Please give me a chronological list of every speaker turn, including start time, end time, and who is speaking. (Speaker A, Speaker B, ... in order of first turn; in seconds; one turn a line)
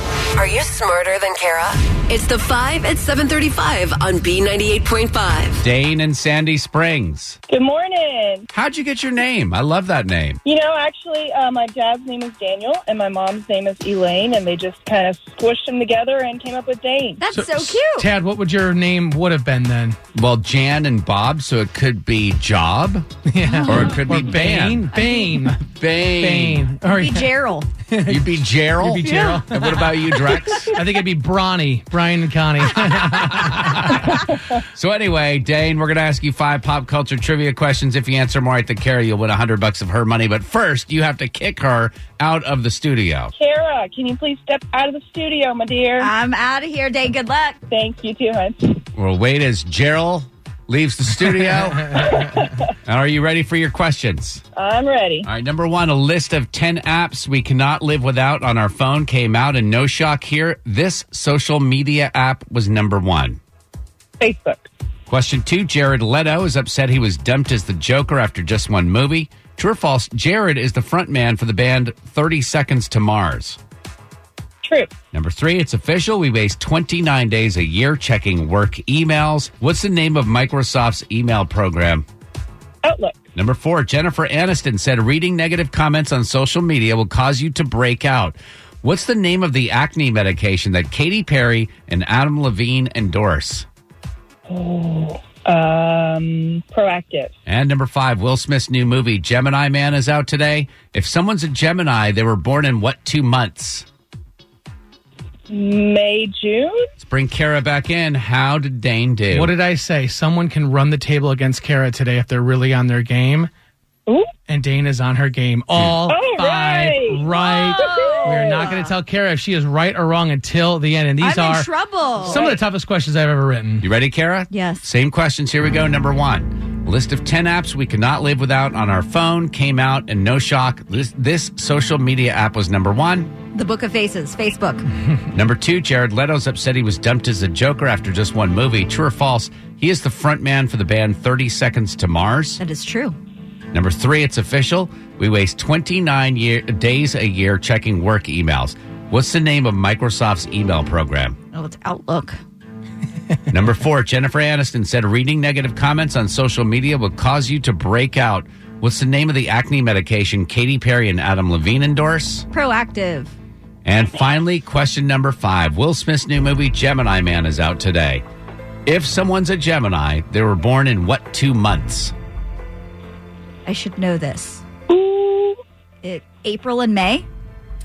Speaker A: 0.3-5.6
Speaker B: 5.6-7.4
Speaker C: 7.5-8.5
Speaker B: 8.5-10.4
Speaker C: 10.4-17.2
Speaker D: 17.2-18.1
Speaker E: 17.3-20.0
Speaker B: 20.1-23.1
Speaker E: 23.3-27.3
Speaker D: 23.5-23.9
Speaker B: 23.7-24.9
Speaker D: 24.9-25.5
Speaker B: 25.6-26.7
Speaker D: 26.9-27.7
Speaker E: 27.9-33.9
Speaker B: 28.1-30.8
Speaker D: 29.0-29.4
Speaker B: 33.1-43.3
Speaker C: 43.4-46.1
Speaker D: 46.0-47.6
Speaker C: 47.7-48.5
Speaker B: 49.0-52.3
Speaker B: 52.9-54.4
Speaker C: 54.6-55.2
Speaker B: 55.2-63.4
Speaker C: 64.2-64.6
Speaker B: 65.1-73.6
Speaker B: 75.1-82.0
Speaker C: 82.8-83.1
Speaker B: 83.3-93.7
Speaker C: 95.1-97.3
Speaker B: 97.5-103.9
Speaker C: 105.5-106.7
Speaker B: 107.0-109.5
Speaker E: 109.3-113.5
Speaker E: 114.5-123.9
Speaker C: 116.9-117.1
Speaker D: 117.2-118.9
Speaker D: 121.2-122.5
Speaker B: 123.8-133.3
Speaker D: 124.5-124.8
Speaker D: 133.5-134.9
Speaker B: 135.3-142.6
Speaker D: 142.6-143.2
Speaker B: 143.7-151.4
Speaker D: 151.5-152.4
Speaker B: 153.5-162.5
Speaker D: 162.5-163.3
Speaker B: 163.8-168.2
Speaker B: 168.9-172.1
Speaker D: 173.7-174.6
Speaker D: 176.0-177.3